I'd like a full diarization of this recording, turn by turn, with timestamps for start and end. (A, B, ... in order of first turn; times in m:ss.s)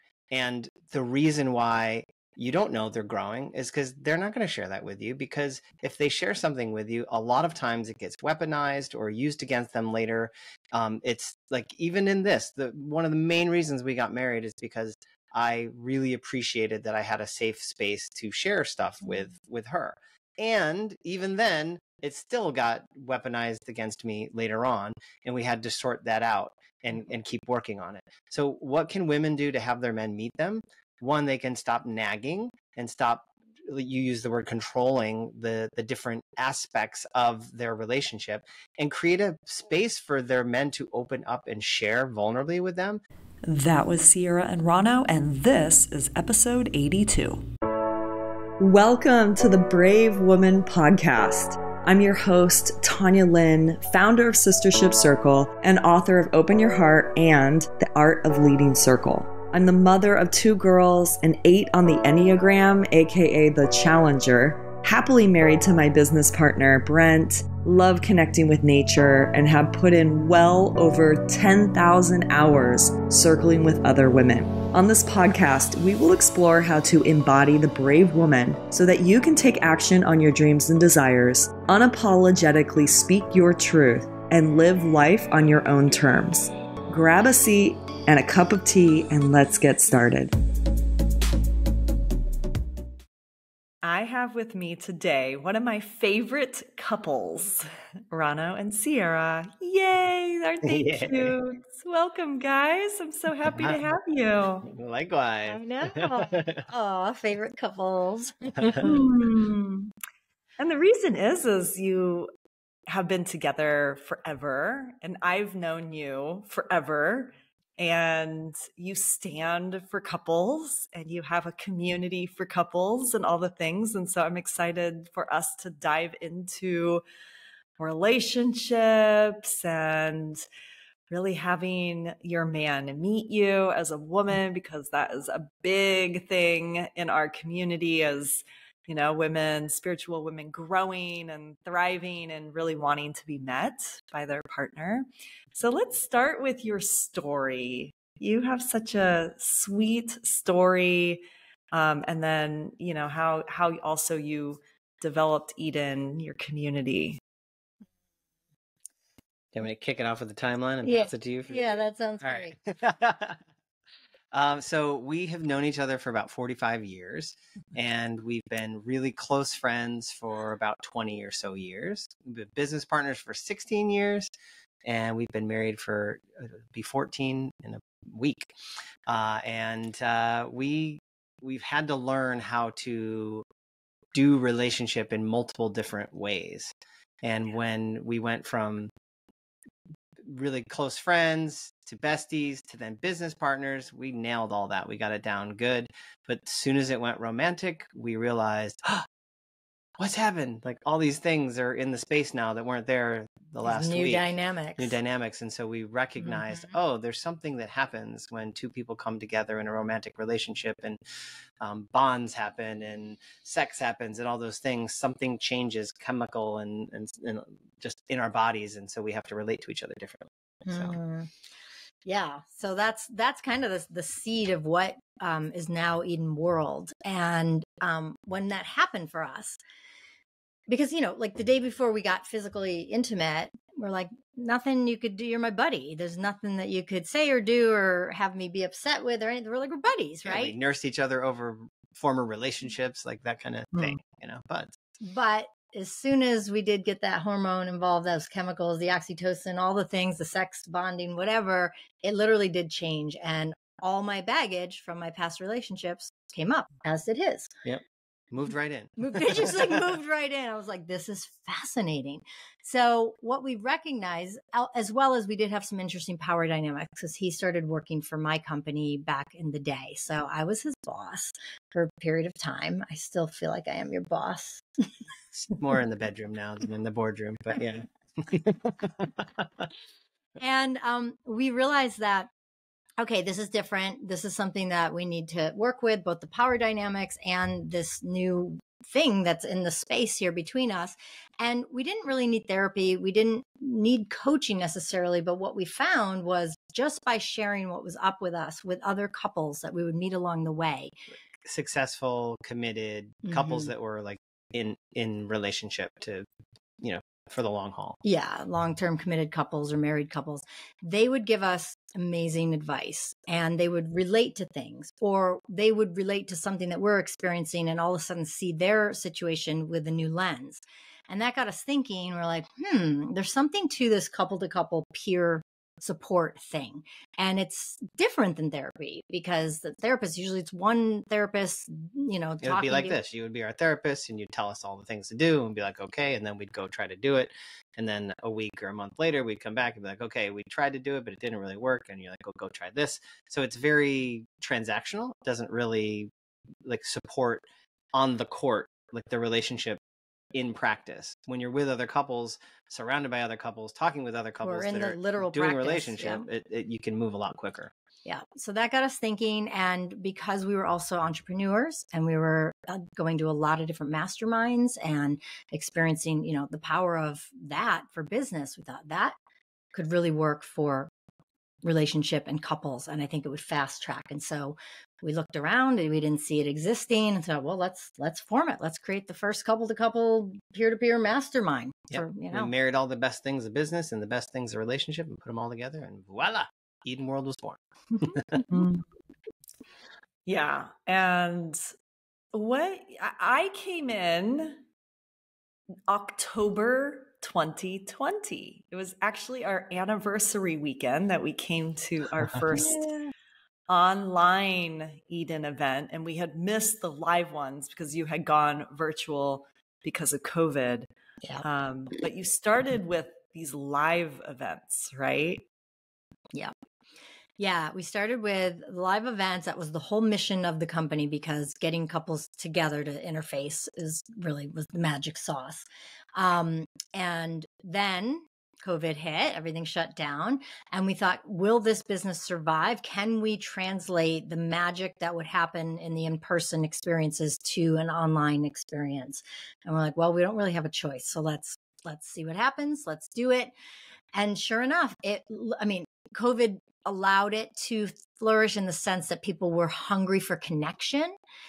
0:00.3-0:43.0 A
0:43.4-0:47.4 B
0:48.6-1:30.3 B
1:33.8-1:44.6 B
1:40.6-1:41.3 A
1:43.5-1:43.8 A
1:44.6-1:46.7 A
1:45.5-1:49.1 C
1:48.6-1:48.8 A
1:48.8-1:49.8 B
1:50.6-1:52.3 B
1:52.9-2:07.0 B
2:07.8-2:10.4 B
2:11.1-2:37.2 B
2:39.5-2:43.4 A
2:40.8-2:42.6 C
2:44.3-2:54.3 A
2:54.8-2:58.5 A
2:59.1-3:03.4 A
3:04.1-3:08.9 A
3:10.2-3:19.1 A
3:20.0-3:31.0 A
3:23.6-3:25.0 C
3:26.3-3:26.7 C
3:31.6-3:40.9 A
3:40.6-3:41.3 C
3:42.0-3:49.6 C
3:50.7-4:00.5 C
4:00.2-4:04.7 A
4:05.0-4:17.5 C
4:17.6-4:19.9 A
4:19.0-4:34.6 C
4:35.5-4:39.7 A
4:40.4-4:42.3 C
4:43.0-5:00.9 C
5:01.4-5:06.2 A
5:03.2-5:03.7 C
5:06.8-5:08.0 A
5:08.0-5:33.0 C
5:32.4-5:46.1 A
5:46.6-5:49.8 A
5:50.3-5:57.7 A
5:54.4-5:56.3 C
5:58.0-6:09.2 C
6:09.7-6:10.9 C
6:11.6-6:22.5 C
6:21.9-6:28.4 A
6:28.5-6:28.8 B
6:30.2-6:31.7 B
6:32.3-6:34.6 B
6:35.9-6:43.0 B
6:42.5-6:42.8 C
6:43.7-6:50.9 B
6:51.4-6:55.4 B
6:57.4-7:23.5 C
7:24.1-7:31.2 C